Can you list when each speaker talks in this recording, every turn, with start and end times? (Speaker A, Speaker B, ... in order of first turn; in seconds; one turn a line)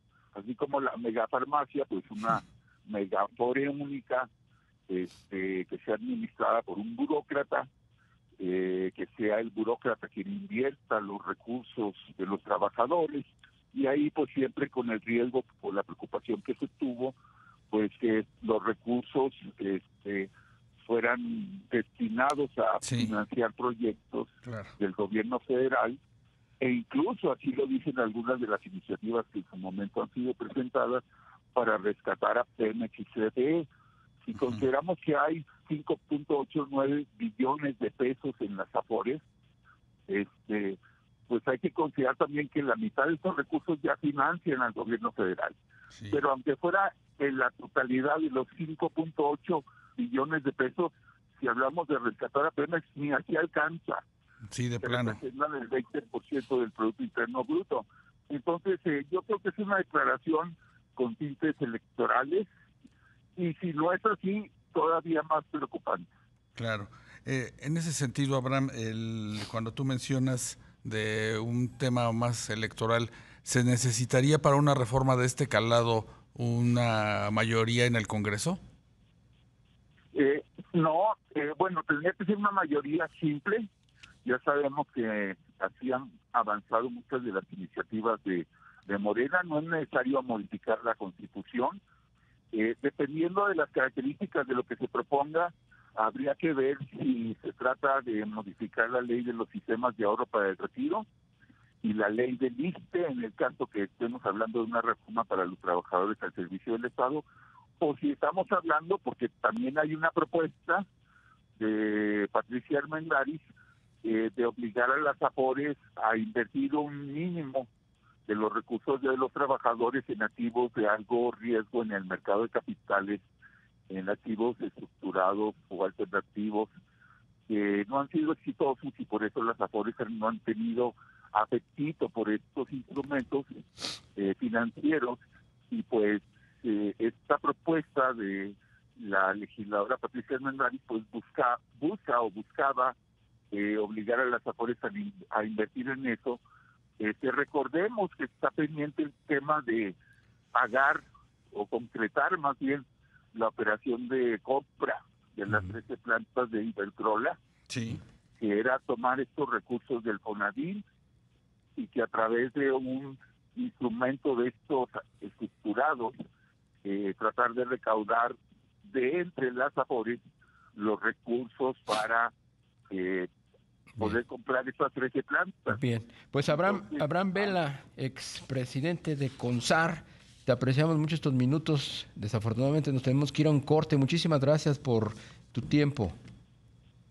Speaker A: 0.3-4.3
Speaker A: 4.9-7.7
Speaker A: 8.4-17.1
Speaker A: 17.7-20.3
Speaker A: 20.8-26.0
Speaker B: 22.8-23.1
Speaker B: 24.4-24.7
Speaker A: 26.6-31.0
Speaker A: 31.5-33.7
Speaker A: 34.2-39.2
Speaker A: 40.1-45.6
Speaker B: 45.9-46.2
Speaker A: 46.1-54.0
Speaker B: 54.5-55.2
Speaker A: 54.8-62.5
Speaker A: 63.4-66.1
Speaker B: 66.5-78.6
Speaker A: 80.1-83.7
Speaker A: 84.2-91.8
Speaker A: 92.5-101.0
Speaker A: 101.8-107.2
Speaker A: 107.8-110.9
Speaker A: 111.6-113.4
Speaker A: 114.0-117.7
Speaker A: 118.3-123.2
Speaker A: 123.9-126.7
Speaker A: 127.5-133.4
Speaker A: 134.2-142.9
Speaker A: 143.5-146.4
Speaker A: 147.0-150.0
Speaker A: 150.5-157.4
Speaker B: 157.7-158.0
Speaker A: 158.4-160.8
Speaker A: 161.8-166.1
Speaker A: 166.8-170.2
Speaker A: 170.7-172.3
Speaker A: 172.9-173.3
Speaker A: 174.0-175.8
Speaker C: 175.7-186.2
Speaker A: 176.4-177.5